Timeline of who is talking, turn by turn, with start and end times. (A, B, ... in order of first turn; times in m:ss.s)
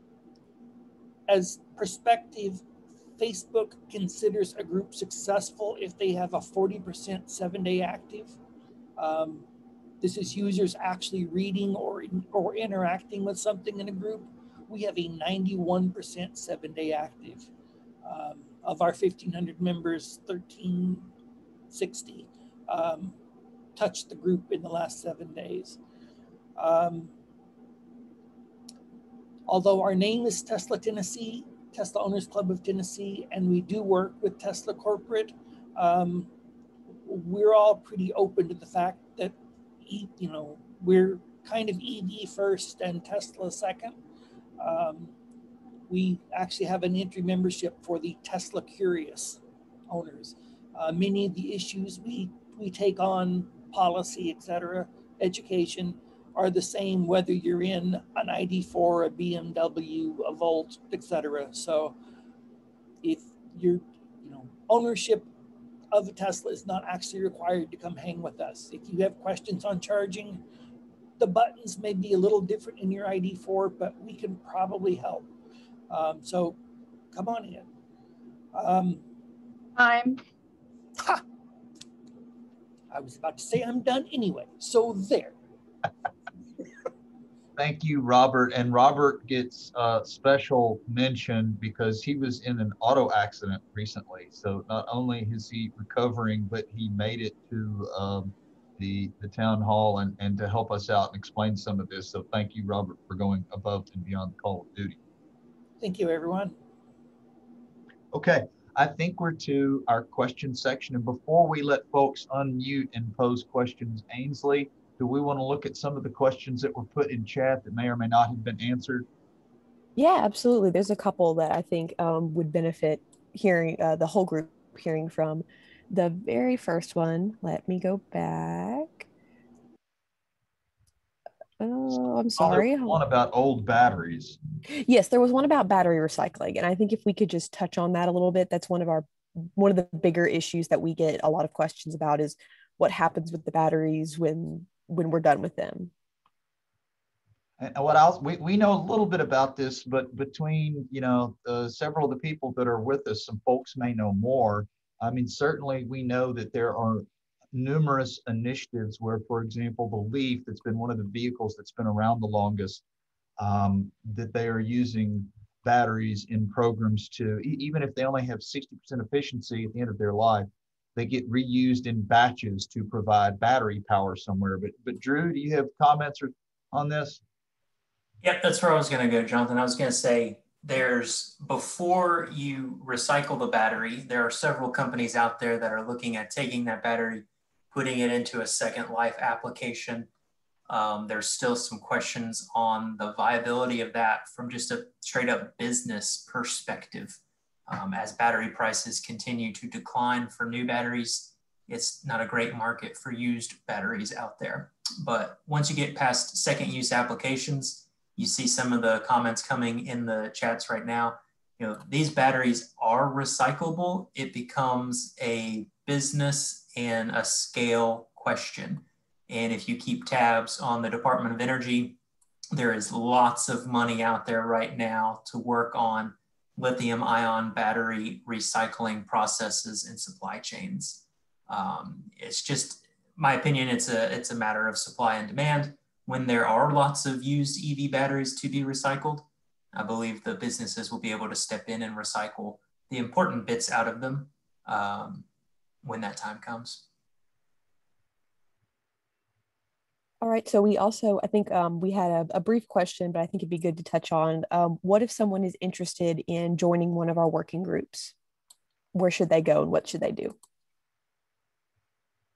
0:01.3-0:02.6 A
0:03.2-0:08.4 A
0:09.0-0:09.4 A
0:10.0-0:17.5 A
0:18.0-0:21.1 A
0:21.7-0:23.2 A
0:23.8-0:25.8 A
0:26.6-0:27.1 A
0:29.5-0:36.3 A
0:37.0-0:44.0 A
0:44.6-0:45.1 A
0:45.9-1:02.0 A
1:03.0-1:05.3 A
1:05.9-1:10.4 A
1:11.2-1:15.3 A
1:15.9-1:16.6 A
1:17.1-1:17.7 A
1:18.5-1:19.0 A
1:22.9-1:25.3 A
1:27.6-1:45.0 B
1:45.8-1:46.6 A
1:48.1-1:59.1 B
2:00.0-2:09.1 C
2:11.6-2:13.0 C
2:12.4-2:14.4 B
2:14.8-2:25.9 C
2:27.6-2:42.8 B
2:43.4-2:57.2 B
2:58.2-3:10.1 D
3:10.7-3:42.0 D
3:42.5-4:05.2 D
4:05.8-4:06.8 D
4:10.2-4:18.1 C
4:18.9-4:20.4 C